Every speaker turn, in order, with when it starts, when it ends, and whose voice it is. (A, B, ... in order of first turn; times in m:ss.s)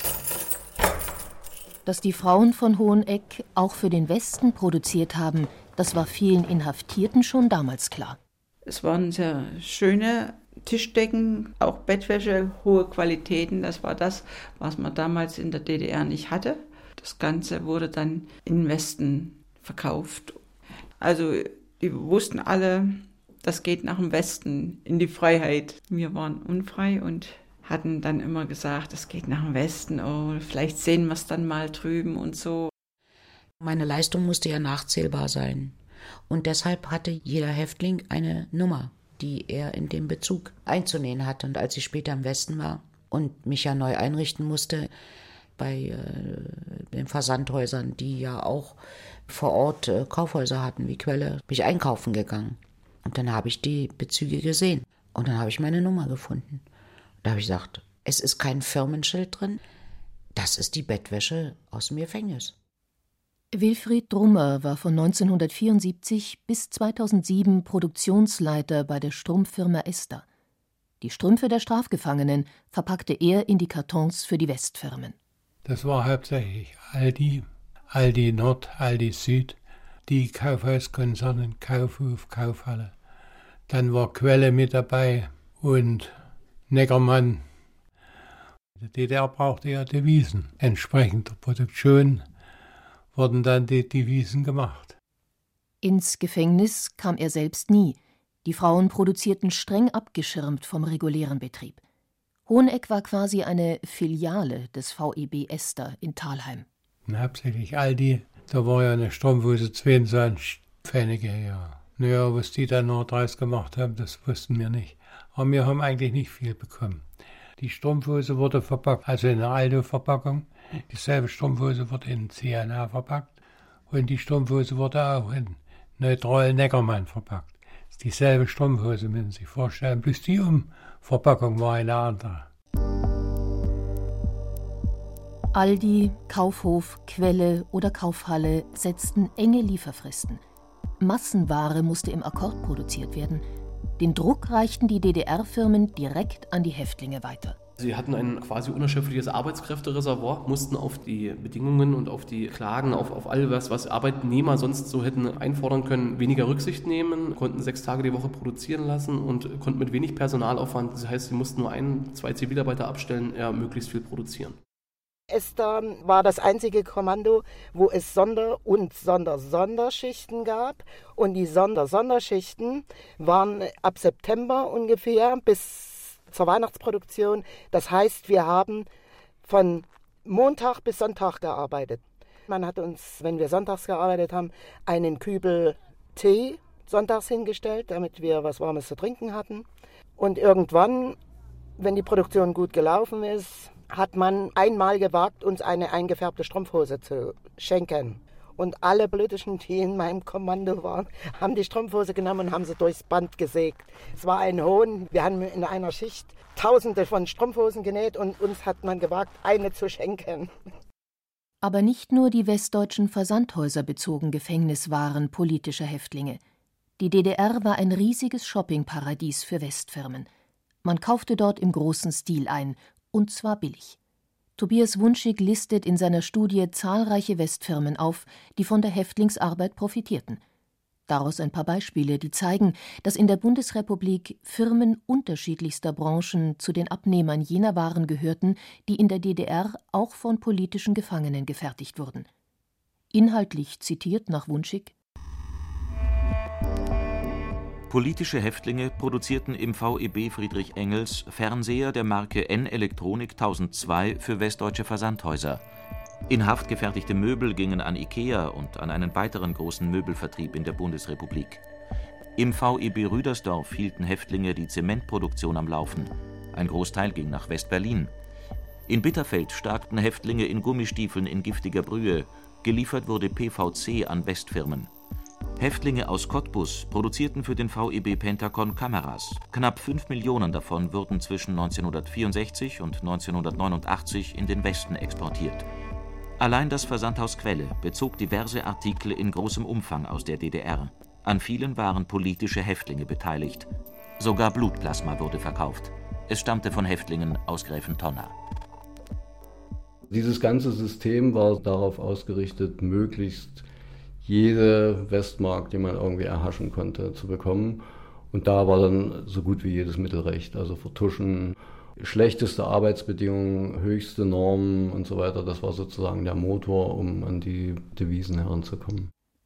0:01.9-0:08.2 A
0:08.6-0:20.4 B
0:21.0-0:32.7 B
0:33.6-0:44.9 C
0:45.6-0:56.6 C
0:57.2-0:59.6 C
1:00.4-1:02.6 C
1:03.5-1:10.2 A
1:11.0-1:15.2 A
1:15.6-1:22.9 D
1:23.7-1:26.2 D
1:26.7-1:27.4 D
1:28.8-1:32.2 D
1:33.1-1:35.0 D
1:35.8-1:41.8 A
1:42.5-1:46.7 A
1:47.1-1:57.0 D
1:57.6-2:03.4 D
2:03.9-2:12.5 D
2:15.5-2:20.4 A
2:21.0-2:23.4 A
2:24.0-2:27.6 A
2:27.8-2:44.6 E
2:45.3-2:58.9 F
2:59.4-3:09.7 F
3:10.2-3:11.2 F
3:11.8-3:30.5 F
3:31.6-3:36.4 A
3:37.0-3:40.3 A
3:40.8-3:44.0 A
3:44.6-3:50.4 A
3:51.1-4:02.3 A
4:03.1-4:04.9 A
4:07.9-4:15.6 G
4:16.3-4:21.6 G
4:22.4-4:28.1 G
4:28.9-4:34.9 G
4:35.6-4:45.7 G
4:46.4-4:58.3 G
5:00.1-5:03.6 H
5:04.2-5:19.1 H